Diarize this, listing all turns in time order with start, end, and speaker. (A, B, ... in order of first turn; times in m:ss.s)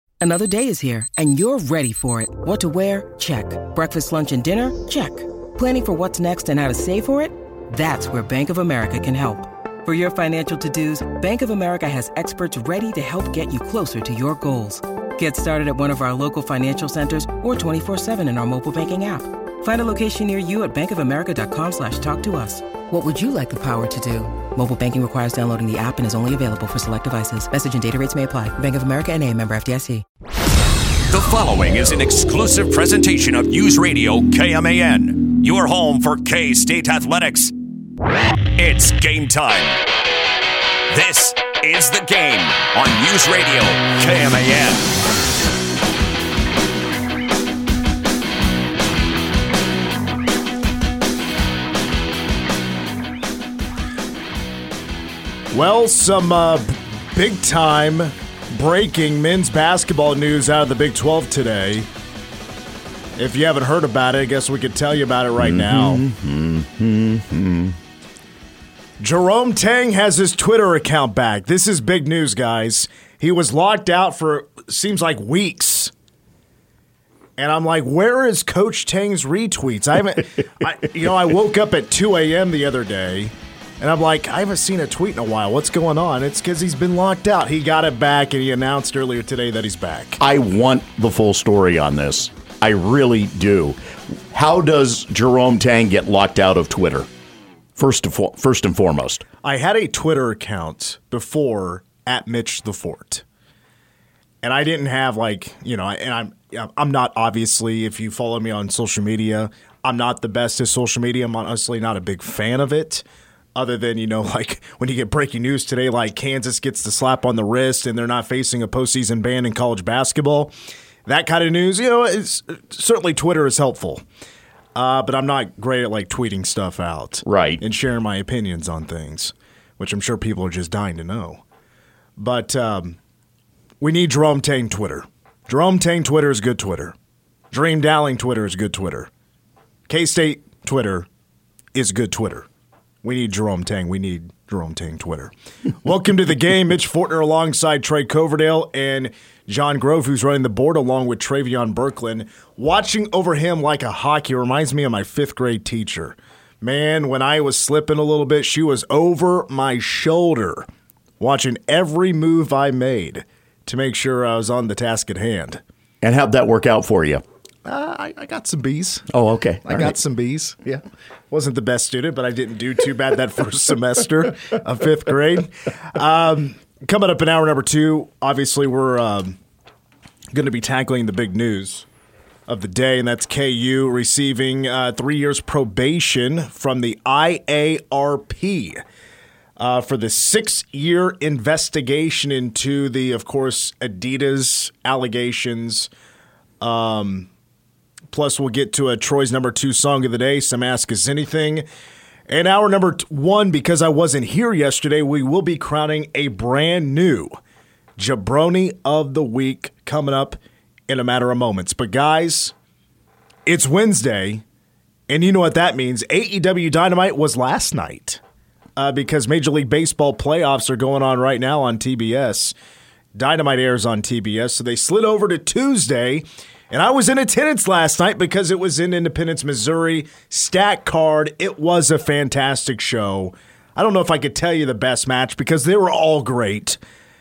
0:00.2-0:30.0 A
0:31.1-0:37.5 B
0:38.6-0:39.8 B
0:40.9-0:44.9 B
0:55.5-1:01.9 C
1:03.2-1:06.0 C
1:05.4-1:07.8 D
1:09.0-1:15.9 C
1:17.4-1:30.2 C
1:30.2-1:37.1 D
1:37.8-1:39.2 D
1:39.4-1:43.2 C
1:44.4-1:53.0 C
1:53.5-2:00.5 C
2:01.0-2:04.0 C
2:04.7-2:11.4 C
2:07.2-2:07.6 D
2:12.2-2:13.0 C
2:13.8-2:16.9 C
2:17.5-2:19.1 C
2:19.9-2:21.1 C
2:21.7-2:22.5 C
2:23.0-2:40.7 C
2:41.2-2:45.6 C
2:46.0-2:47.2 D
2:47.6-2:49.1 C
2:49.1-2:50.0 D
2:49.6-2:59.4 C
3:00.3-3:01.8 C
3:02.5-3:08.8 C
3:09.6-3:15.9 C
3:16.6-3:17.3 C
3:18.1-3:21.6 C
3:22.3-3:27.3 C
3:28.0-3:32.5 C
3:33.4-3:34.4 C
3:35.1-3:38.2 C
3:38.8-3:42.5 C
3:43.1-3:56.8 C